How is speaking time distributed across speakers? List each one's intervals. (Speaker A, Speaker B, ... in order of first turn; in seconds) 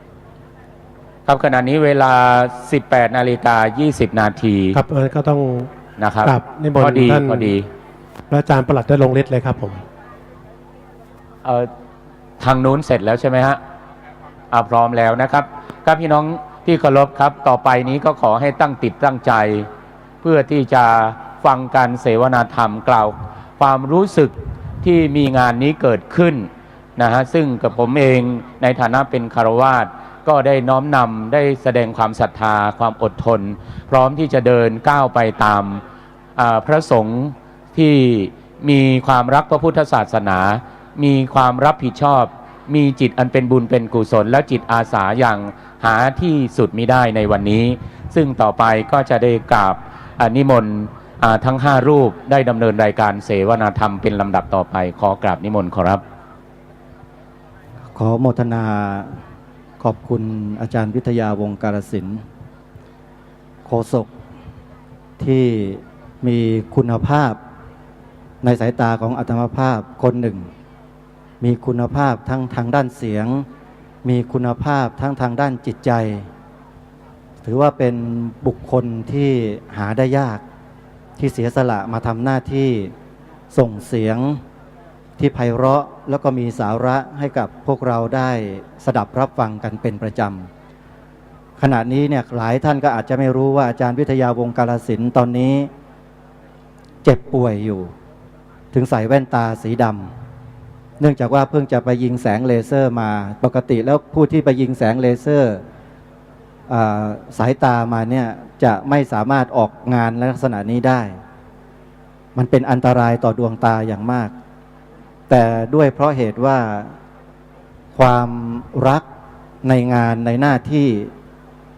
Speaker A: 1.2-4.8, 6.0-7.7, 11.4-11.7, 12.4-13.6, 14.5-19.7, 20.2-35.8, 36.4-56.0
Speaker B: 4.7-5.7, 6.2-7.5, 8.3-9.8
Speaker C: 57.9-59.1, 59.8-62.2, 63.6-64.1, 65.2-67.4, 68.4-70.5, 71.4-73.4, 74.0-76.3, 77.4-80.4, 81.2-82.9, 83.5-84.4, 85.2-90.5, 91.6-95.7, 97.0-97.9, 98.7-100.1, 101.0-105.6, 106.7-111.2, 112.3-114.3, 115.3-116.9, 117.9-119.0, 119.6-121.1